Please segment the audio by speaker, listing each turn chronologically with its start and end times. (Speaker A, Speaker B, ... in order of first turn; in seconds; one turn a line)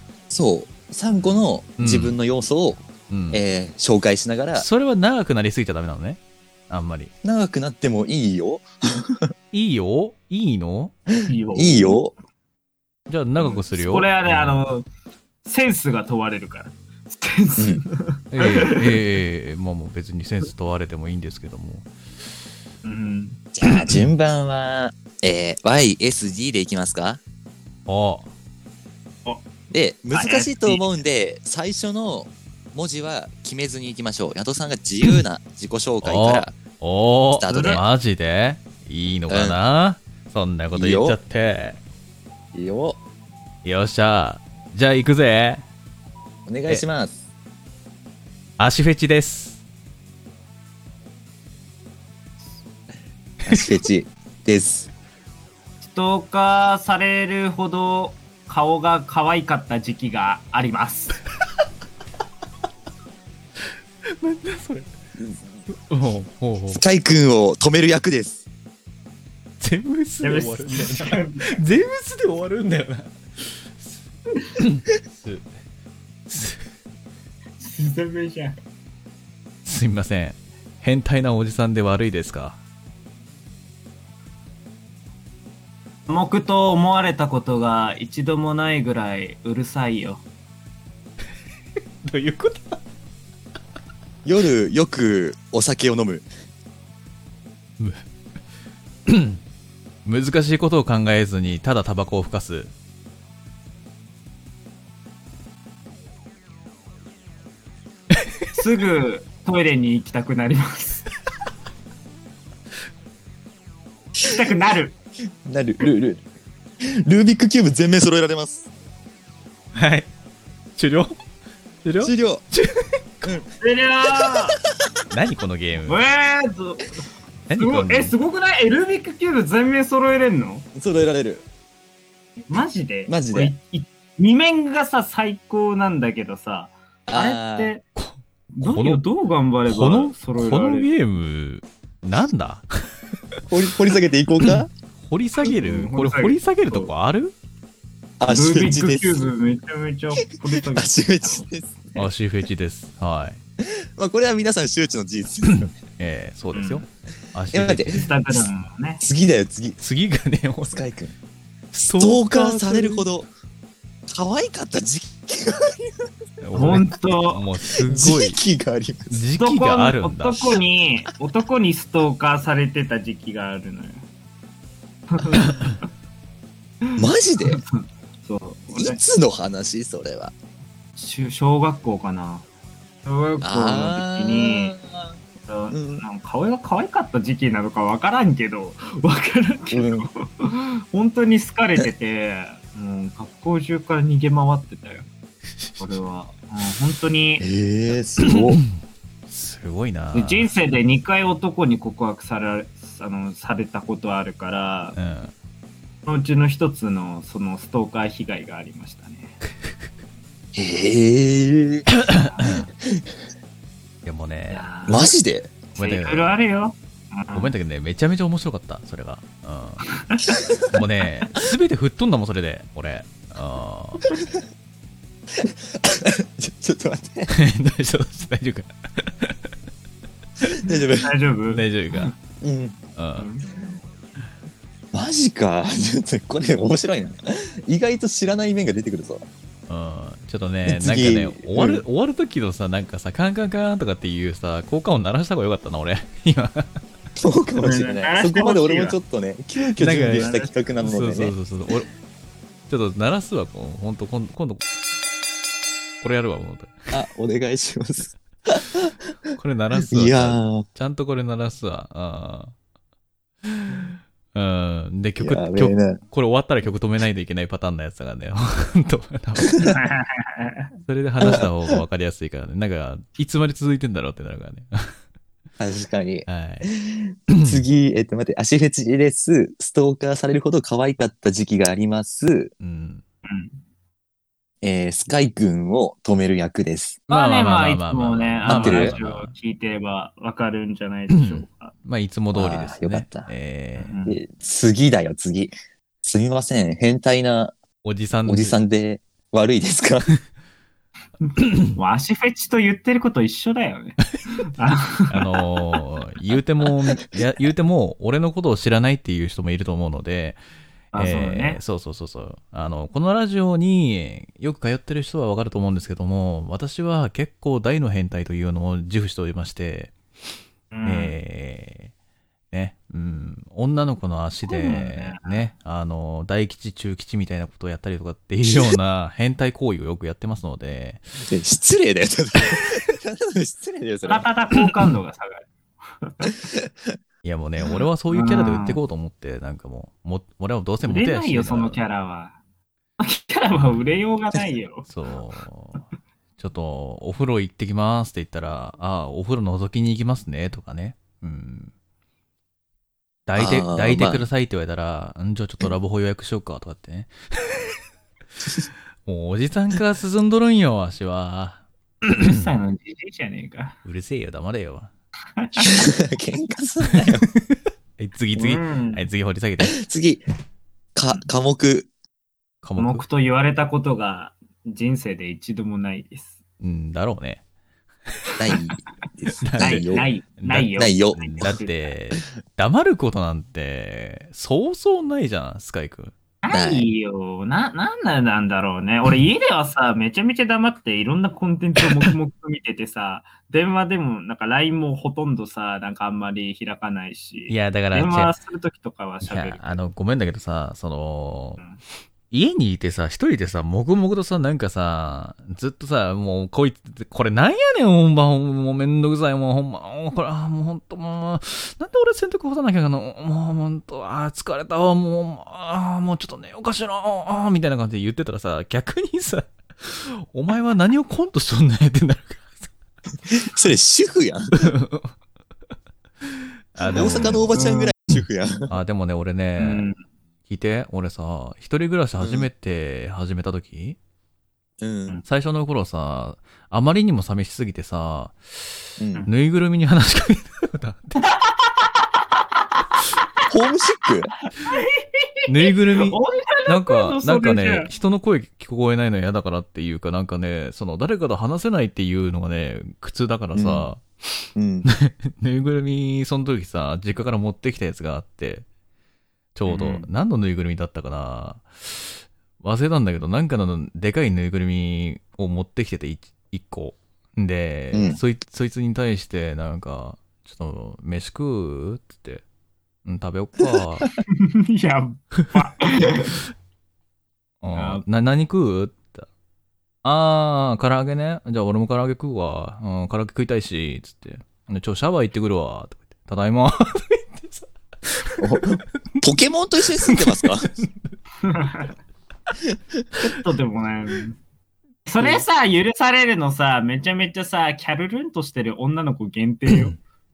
Speaker A: 0.3-4.7
Speaker B: 1.8-2.1
Speaker B: 3.1-3.4
Speaker B: 4.5-7.1
Speaker A: 7.2-9.3
Speaker B: 9.5-10.9
Speaker C: 11.2-12.0
Speaker A: 11.5-12.1
Speaker B: 13.1-14.6
Speaker C: 13.4-14.8
Speaker C: 15.4-19.0
Speaker A: 17.6-17.8
Speaker B: 18.3-21.9
Speaker C: 22.8-23.9
Speaker A: 23.5-27.2
Speaker B: 27.9-28.3
Speaker A: 29.7-36.5
Speaker C: 30.1-30.8
Speaker B: 36.0-41.8
Speaker A: 37.3-37.8
Speaker C: 37.5-37.8
Speaker A: 39.3-39.6
Speaker A: 40.7-41.2
Speaker A: 42.5-43.0
Speaker B: 43.6-45.6
Speaker A: 46.5-47.2
Speaker B: 48.6-49.6
Speaker A: 53.4-54.9
Speaker C: 55.9-61.1
Speaker B: 64.1-64.9
Speaker B: 65.7-66.8
Speaker A: 66.7-68.4
Speaker B: 69.6-74.0
Speaker C: 70.2-71.6
Speaker B: 74.6-75.5
Speaker B: 76.3-76.6
Speaker C: 77.6-78.6
Speaker B: 79.6-82.6
Speaker C: 86.1-90.2
Speaker B: 92.0-92.8
Speaker A: 94.2-96.2
Speaker B: 99.1-99.4
Speaker B: 100.0-102.7
Speaker C: 108.5-111.1
Speaker C: 114.2-114.9
Speaker A: 115.4-116.2
Speaker A: 116.8-118.6
Speaker B: 119.7-120.1
Speaker B: 120.8-121.1
Speaker B: 121.8-123.4
Speaker A: 122.0-122.4
Speaker C: 123.6-124.6
Speaker B: 125.1-126.0
Speaker C: 125.9-126.9
Speaker B: 127.5-128.1
Speaker C: 127.6-130.7
Speaker A: 130.7-131.4
Speaker C: 132.5-137.8
Speaker A: 133.1-133.5
Speaker A: 137.1-137.7
Speaker B: 137.9-139.0
Speaker C: 138.5-140.9
Speaker B: 139.6-142.7
Speaker A: 143.5-144.7
Speaker B: 144.4-147.3
Speaker C: 145.4-146.9
Speaker A: 148.2-149.3
Speaker C: 148.3-151.5
Speaker A: 150.2-152.1
Speaker B: 151.9-153.4
Speaker A: 153.6-155.7
Speaker B: 155.4-158.1
Speaker C: 156.5-156.8
Speaker A: 157.5-158.1
Speaker C: 157.9-159.0
Speaker A: 159.0-159.8
Speaker B: 159.8-160.8
Speaker A: 160.7-161.1
Speaker B: 161.7-163.0
Speaker A: 162.0-163.3
Speaker A: 164.1-166.1
Speaker B: 166.4-168.4
Speaker C: 166.5-167.4
Speaker A: 167.7-169.2
Speaker B: 169.1-170.5
Speaker C: 169.4-174.0
Speaker C: 175.1-175.8
Speaker C: 176.8-179.0
Speaker A: 177.0-177.6
Speaker A: 178.7-180.3
Speaker C: 181.0-182.4
Speaker C: 183.0-184.8
Speaker A: 183.4-185.1
Speaker C: 185.5-195.1
Speaker A: 185.7-186.0
Speaker A: 189.7-190.1
Speaker C: 195.8-197.5
Speaker A: 197.4-198.6
Speaker B: 198.2-198.7
Speaker B: 199.3-200.5
Speaker C: 200.1-204.9
Speaker B: 204.9-205.3
Speaker C: 206.1-209.3
Speaker A: 210.5-211.9
Speaker B: 212.0-212.6
Speaker C: 212.2-212.6
Speaker B: 214.0-214.6
Speaker C: 214.5-215.1
Speaker A: 214.9-215.5
Speaker B: 215.7-216.3
Speaker C: 215.8-217.5
Speaker B: 217.3-219.8
Speaker C: 220.0-220.3
Speaker B: 220.7-224.0
Speaker A: 225.3-227.3
Speaker B: 227.3-229.4
Speaker A: 230.4-231.1
Speaker C: 231.0-232.1
Speaker B: 231.5-232.1
Speaker A: 232.4-232.8
Speaker B: 233.0-233.3
Speaker C: 233.2-233.5
Speaker A: 234.9-239.2
Speaker B: 239.7-246.7
Speaker A: 240.7-241.8
Speaker A: 247.2-251.3
Speaker C: 247.6-249.0
Speaker B: 249.8-251.9
Speaker C: 250.0-250.9
Speaker B: 252.7-254.6
Speaker B: 256.0-256.9
Speaker A: 256.9-260.6
Speaker B: 259.3-262.5
Speaker B: 263.4-269.7
Speaker A: 265.2-266.0
Speaker A: 269.5-269.7
Speaker C: 269.6-270.7
Speaker B: 270.9-274.9
Speaker A: 271.2-271.8
Speaker A: 275.6-282.5
Speaker B: 276.3-276.7
Speaker B: 277.3-277.6
Speaker B: 282.6-283.0
Speaker C: 283.2-283.6
Speaker A: 284.6-287.0
Speaker B: 287.1-289.3
Speaker C: 287.1-291.7
Speaker A: 288.4-288.9
Speaker B: 291.1-294.0
Speaker A: 292.3-293.3
Speaker C: 293.8-294.2
Speaker A: 294.0-297.6
Speaker B: 297.8-298.6
Speaker A: 298.2-300.1
Speaker B: 301.4-301.7
Speaker C: 301.7-305.4
Speaker B: 305.1-310.4
Speaker C: 310.9-311.6
Speaker B: 310.9-319.9
Speaker C: 320.7-321.1
Speaker B: 320.8-321.9
Speaker B: 322.5-331.0
Speaker C: 324.5-325.5
Speaker A: 328.4-328.8
Speaker A: 331.3-334.3
Speaker C: 334.0-335.5
Speaker C: 336.0-336.3
Speaker A: 336.5-336.9
Speaker B: 337.2-341.8
Speaker C: 338.1-338.8
Speaker C: 340.8-342.4
Speaker C: 343.0-344.9
Speaker B: 344.9-345.8
Speaker B: 346.4-351.7
Speaker B: 353.3-357.7
Speaker A: 353.4-354.2
Speaker B: 359.0-361.6
Speaker C: 362.0-363.8
Speaker B: 362.2-362.5
Speaker B: 363.8-364.9
Speaker C: 365.4-365.9
Speaker A: 365.6-367.3
Speaker B: 366.9-369.8
Speaker C: 368.4-369.0
Speaker A: 369.6-370.2
Speaker A: 370.9-371.9
Speaker B: 372.6-373.0
Speaker C: 372.8-376.3
Speaker B: 376.6-377.4
Speaker A: 378.4-380.1
Speaker B: 379.4-386.1
Speaker C: 379.6-381.9
Speaker A: 380.7-381.4
Speaker C: 386.4-399.8
Speaker A: 386.5-386.9
Speaker B: 397.5-398.3
Speaker B: 399.2-401.6
Speaker B: 402.3-422.7
Speaker A: 423.3-424.7
Speaker B: 424.5-425.1
Speaker B: 426.2-427.5
Speaker A: 426.9-428.7
Speaker C: 427.0-427.9
Speaker B: 428.7-429.9
Speaker C: 429.6-429.9
Speaker B: 430.5-434.0
Speaker A: 432.2-432.5
Speaker A: 434.8-435.2
Speaker B: 435.2-441.3
Speaker A: 439.0-439.3
Speaker C: 441.2-441.9
Speaker A: 443.5-444.3
Speaker C: 444.6-447.9
Speaker B: 445.5-458.6
Speaker A: 453.5-453.9
Speaker A: 454.6-454.9
Speaker B: 459.5-472.4
Speaker C: 459.7-460.1
Speaker A: 467.9-468.2
Speaker B: 473.0-474.1
Speaker C: 474.3-476.4
Speaker B: 477.6-479.3
Speaker C: 477.7-478.0
Speaker B: 480.0-488.8
Speaker A: 488.4-490.7
Speaker B: 490.0-491.1
Speaker C: 491.4-491.9
Speaker A: 492.7-493.0
Speaker C: 493.2-494.4
Speaker C: 495.1-499.9
Speaker B: 499.7-499.9